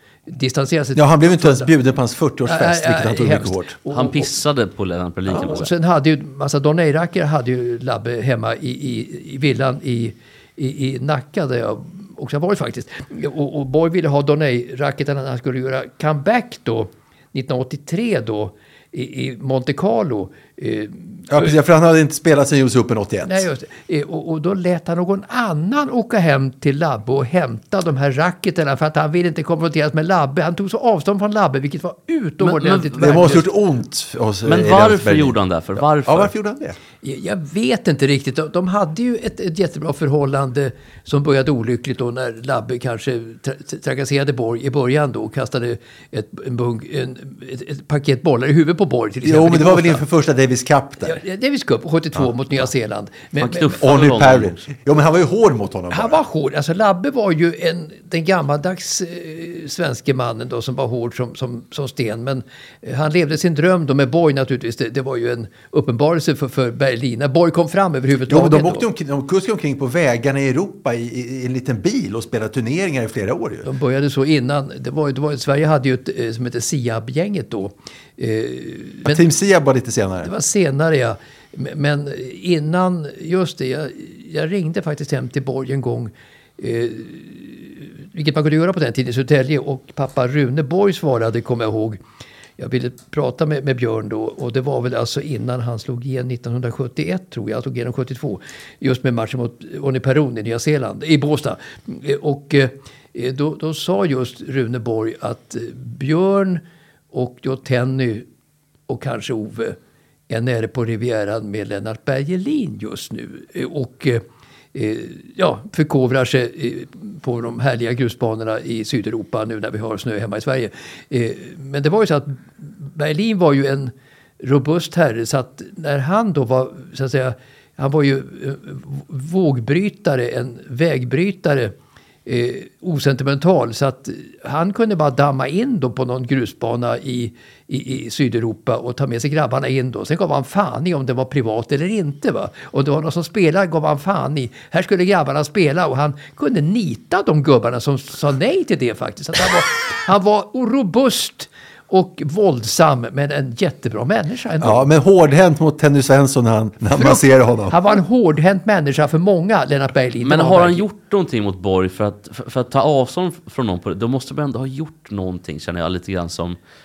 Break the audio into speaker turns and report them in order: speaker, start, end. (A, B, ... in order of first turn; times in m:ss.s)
0:00.3-0:01.7 A
0:00.9-0:03.8 B
0:02.4-0:04.3 A
0:03.9-0:05.7 C
0:05.3-0:21.5 A
0:21.3-0:23.4 B
0:23.2-0:33.4 A
0:32.4-0:33.4 C
0:33.0-0:36.8 B
0:34.4-0:36.3 C
0:37.0-0:50.0 A
0:49.2-0:51.2 B
0:51.0-0:53.7 A
0:53.4-0:54.6 C
0:53.7-0:56.2 B
0:55.9-1:08.8 A
1:08.3-1:13.6 B
1:13.6-1:19.2 A
1:19.0-1:20.3 B
1:20.2-1:32.0 A
1:32.6-1:48.3 A
1:48.9-1:49.8 A
1:50.3-2:11.7 A
2:12.2-2:34.9 A
2:34.6-2:37.8 B
2:36.9-2:40.8 A
2:40.2-2:46.6 C